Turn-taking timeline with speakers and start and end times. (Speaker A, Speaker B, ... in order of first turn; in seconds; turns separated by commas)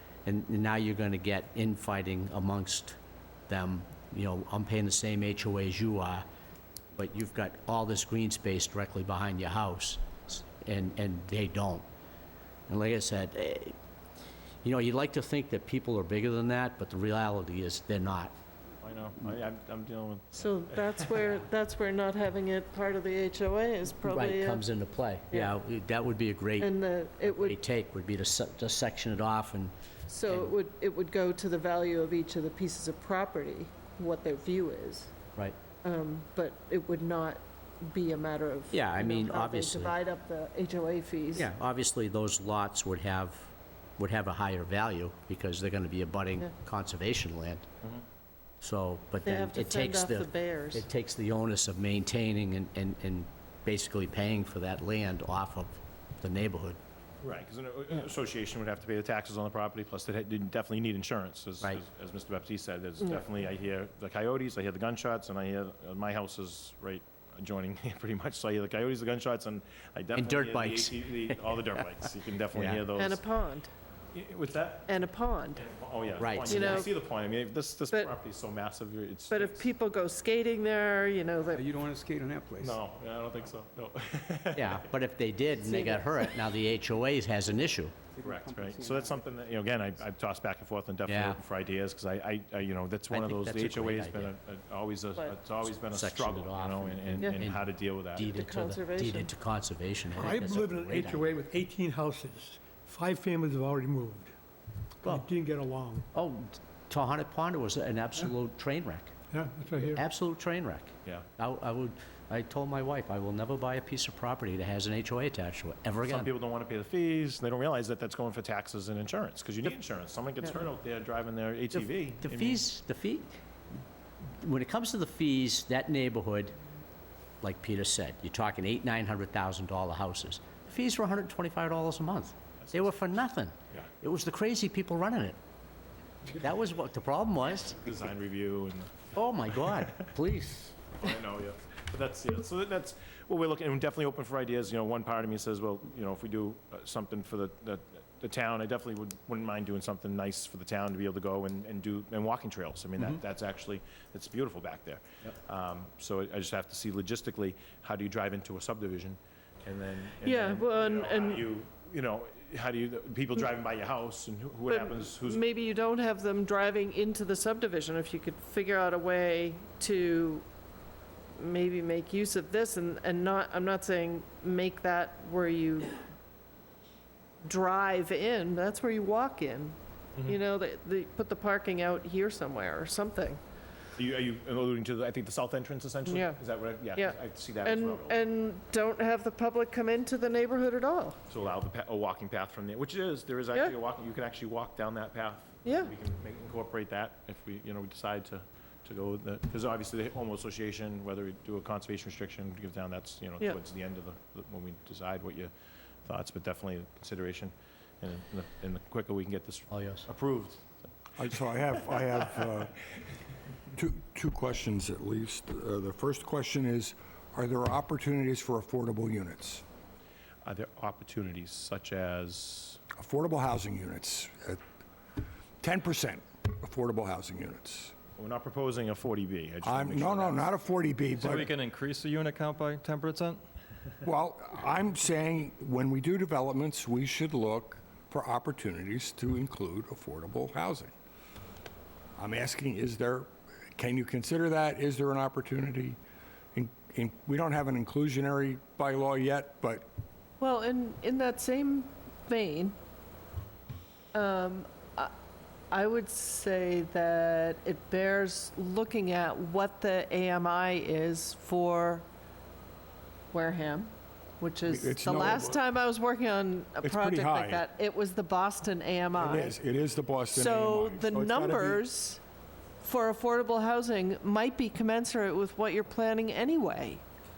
Speaker A: 0.2-3.0, Speaker A: 3.5-6.2, Speaker A: 7.0-11.9, Speaker A: 12.7-13.8, Speaker A: 14.6-18.3, Speaker B: 18.8-21.3, Speaker C: 20.4-24.6, Speaker A: 24.0-29.7, Speaker C: 26.6-27.6, Speaker C: 30.1-35.1, Speaker A: 30.3-30.5, Speaker C: 35.8-41.5, Speaker A: 38.7-40.0, Speaker A: 41.3-47.6, Speaker A: 48.6-56.8, Speaker C: 49.2-50.8, Speaker B: 57.2-73.2, Speaker A: 70.1-71.5, Speaker A: 72.5-72.8, Speaker C: 72.9-73.7, Speaker B: 74.1-75.0, Speaker C: 74.9-75.6, Speaker B: 75.5-79.7, Speaker A: 76.2-76.9, Speaker C: 76.5-76.9, Speaker C: 79.3-81.7, Speaker D: 81.5-82.8, Speaker B: 82.6-84.8, Speaker A: 84.5-87.9, Speaker C: 85.6-86.3, Speaker D: 88.2-89.0, Speaker B: 88.2-98.2, Speaker A: 91.0-91.4, Speaker A: 93.1-94.3, Speaker A: 95.9-101.3, Speaker C: 98.2-99.3, Speaker E: 100.1-104.3, Speaker E: 105.0-106.1, Speaker A: 106.1-109.1, Speaker E: 109.3-110.0, Speaker A: 109.9-116.3, Speaker B: 116.0-122.6, Speaker A: 121.7-123.4, Speaker A: 124.4-126.5, Speaker A: 127.4-135.4, Speaker B: 132.7-132.9, Speaker A: 136.3-137.8, Speaker B: 137.8-139.1, Speaker A: 139.1-140.8, Speaker B: 141.0-165.4, Speaker C: 160.2-161.5, Speaker C: 164.7-170.4, Speaker C: 171.3-176.0, Speaker C: 177.4-183.4, Speaker B: 183.9-188.2, Speaker C: 186.1-186.4, Speaker C: 186.9-191.2, Speaker B: 191.3-205.5, Speaker C: 195.6-195.9, Speaker B: 206.1-210.6, Speaker A: 209.7-210.1, Speaker F: 211.2-212.8, Speaker F: 213.8-219.6, Speaker B: 220.4-222.8, Speaker F: 223.0-224.6, Speaker F: 225.6-227.9, Speaker B: 228.2-230.5, Speaker F: 229.6-231.5, Speaker G: 231.1-233.4, Speaker F: 234.0-240.9, Speaker F: 242.2-246.0, Speaker F: 246.5-249.9, Speaker C: 250.4-252.8, Speaker C: 254.1-255.1, Speaker C: 255.7-262.1, Speaker C: 263.3-269.5, Speaker F: 264.7-265.6, Speaker F: 266.8-267.6, Speaker F: 269.1-271.8, Speaker C: 270.3-272.2, Speaker C: 272.8-277.0